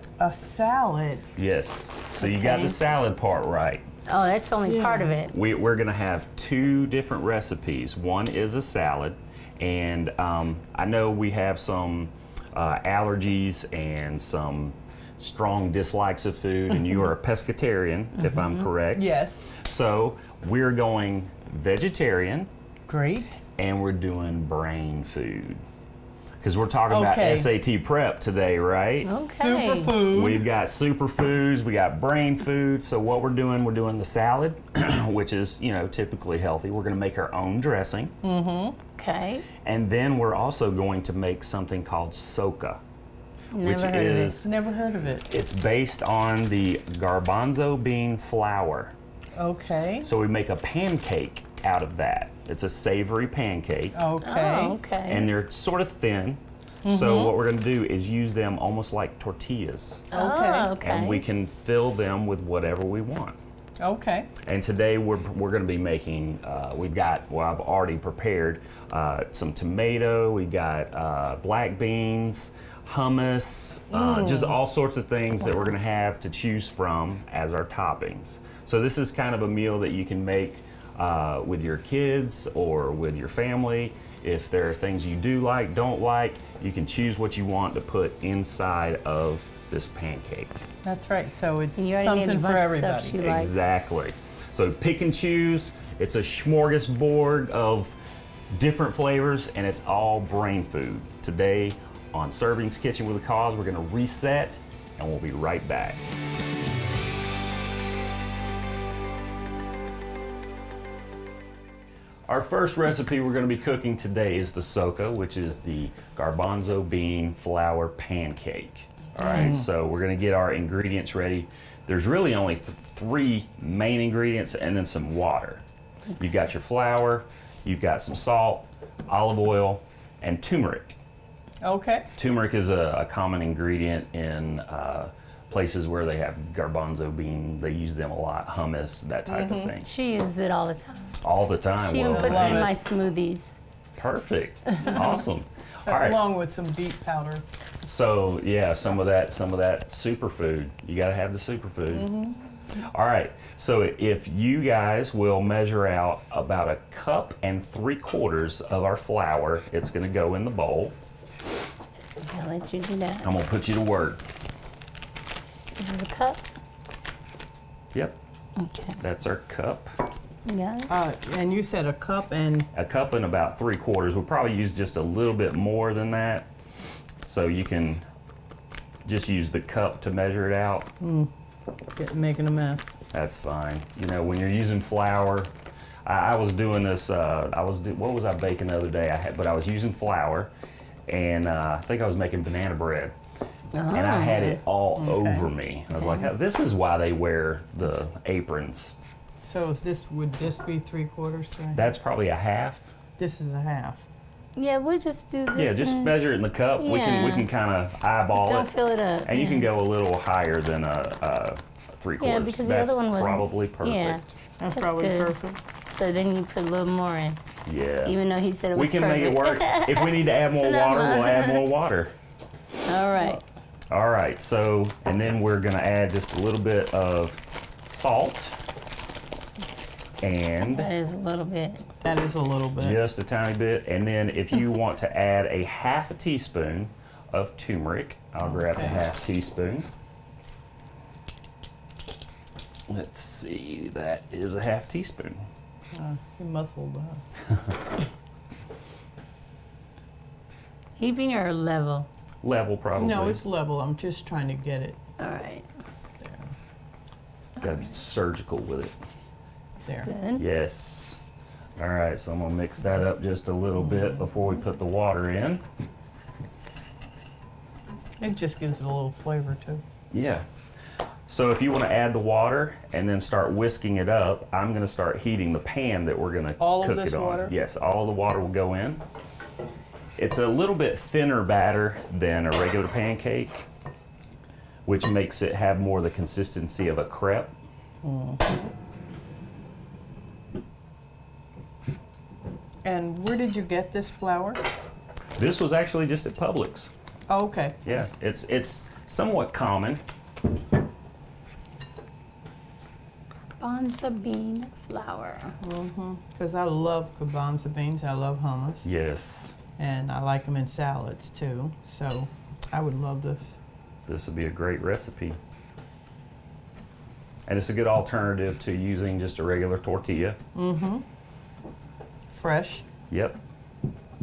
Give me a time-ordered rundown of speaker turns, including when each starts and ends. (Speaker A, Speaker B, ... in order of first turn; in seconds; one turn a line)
Speaker A: 0.2-1.3
Speaker B: 1.4-3.8
Speaker C: 2.2-2.8
Speaker C: 4.0-5.3
Speaker A: 4.6-5.2
Speaker B: 5.3-22.5
Speaker C: 18.2-18.6
Speaker A: 18.9-19.5
Speaker A: 22.9-23.4
Speaker B: 23.6-25.6
Speaker B: 26.4-29.2
Speaker A: 26.9-27.5
Speaker C: 29.0-30.0
Speaker A: 29.1-30.4
Speaker B: 30.0-38.1
Speaker A: 38.2-38.8
Speaker C: 39.0-39.4
Speaker B: 39.6-42.8
Speaker C: 43.5-44.4
Speaker B: 43.6-44.5
Speaker A: 44.3-45.3
Speaker B: 45.3-48.9
Speaker A: 49.4-50.1
Speaker B: 50.0-54.0
Speaker A: 53.9-54.8
Speaker C: 54.2-55.3
Speaker B: 55.1-60.0
Speaker A: 56.8-57.3
Speaker A: 60.1-60.7
Speaker C: 60.1-61.2
Speaker B: 60.8-63.4
Speaker A: 63.8-64.3
Speaker B: 64.4-90.6
Speaker A: 73.9-74.6
Speaker A: 90.8-93.3
Speaker C: 91.8-93.7
Speaker B: 93.2-98.0
Speaker B: 98.5-106.0
Speaker B: 112.3-125.6
Speaker C: 119.2-119.5
Speaker A: 119.2-119.6
Speaker B: 126.2-131.0
Speaker A: 131.6-132.1
Speaker B: 132.2-139.9
Speaker A: 139.2-139.7
Speaker C: 139.8-141.2
Speaker B: 141.2-142.7
Speaker C: 141.7-143.6
Speaker A: 142.1-142.7
Speaker B: 143.9-146.2
Speaker A: 144.8-145.2
Speaker A: 145.8-147.4
Speaker B: 147.8-152.1
Speaker A: 151.9-152.3
Speaker B: 152.7-160.9
Speaker C: 162.2-163.3
Speaker B: 163.2-164.2
Speaker C: 165.8-166.4
Speaker B: 167.9-168.2
Speaker C: 168.6-169.0
Speaker B: 169.0-169.9
Speaker C: 170.4-170.9
Speaker A: 170.9-172.7
Speaker B: 172.7-176.5
Speaker B: 177.2-178.0
Speaker B: 179.0-180.9
Speaker A: 181.0-181.3
Speaker A: 181.9-183.0
Speaker B: 183.1-185.5
Speaker B: 186.0-190.5
Speaker B: 191.1-193.1
Speaker C: 193.7-194.6
Speaker B: 193.9-198.9
Speaker A: 195.0-195.5
Speaker C: 196.0-196.2
Speaker A: 199.4-201.9
Speaker B: 201.7-202.9
Speaker A: 203.2-204.0
Speaker C: 204.6-206.2
Speaker B: 205.5-208.7
Speaker C: 206.8-207.5
Speaker C: 208.3-209.7
Speaker B: 209.2-214.3
Speaker C: 212.2-215.3
Speaker A: 214.6-215.6
Speaker C: 215.8-217.4
Speaker B: 217.7-218.2
Speaker C: 218.0-221.6
Speaker B: 218.7-222.1
Speaker C: 222.8-223.4
Speaker B: 223.9-228.6
Speaker B: 230.2-230.9
Speaker C: 230.7-231.8
Speaker A: 232.0-233.0
Speaker B: 232.8-239.9
Speaker A: 238.5-239.0
Speaker B: 242.9-245.5
Speaker A: 245.9-247.2
Speaker C: 251.0-252.1
Speaker B: 252.4-253.4
Speaker A: 253.0-255.0
Speaker C: 255.2-255.7
Speaker A: 256.2-256.5
Speaker B: 257.6-258.9
Speaker A: 259.8-260.1
Speaker C: 260.0-260.4
Speaker B: 260.4-261.2
Speaker B: 261.8-265.6
Speaker A: 263.9-264.2
Speaker A: 268.2-269.8
Speaker B: 270.1-270.4
Speaker B: 271.3-279.0
Speaker A: 276.6-277.6
Speaker B: 280.2-283.6
Speaker B: 284.9-287.5
Speaker A: 288.0-288.6
Speaker A: 292.8-294.6
Speaker B: 295.4-296.9
Speaker A: 297.3-297.8
Speaker B: 297.8-300.0
Speaker C: 303.6-305.5
Speaker A: 305.6-308.8
Speaker B: 308.8-309.6
Speaker A: 309.8-313.6
Speaker B: 314.1-315.4
Speaker B: 317.5-320.4
Speaker A: 320.5-321.0
Speaker A: 322.3-322.8
Speaker B: 323.1-323.4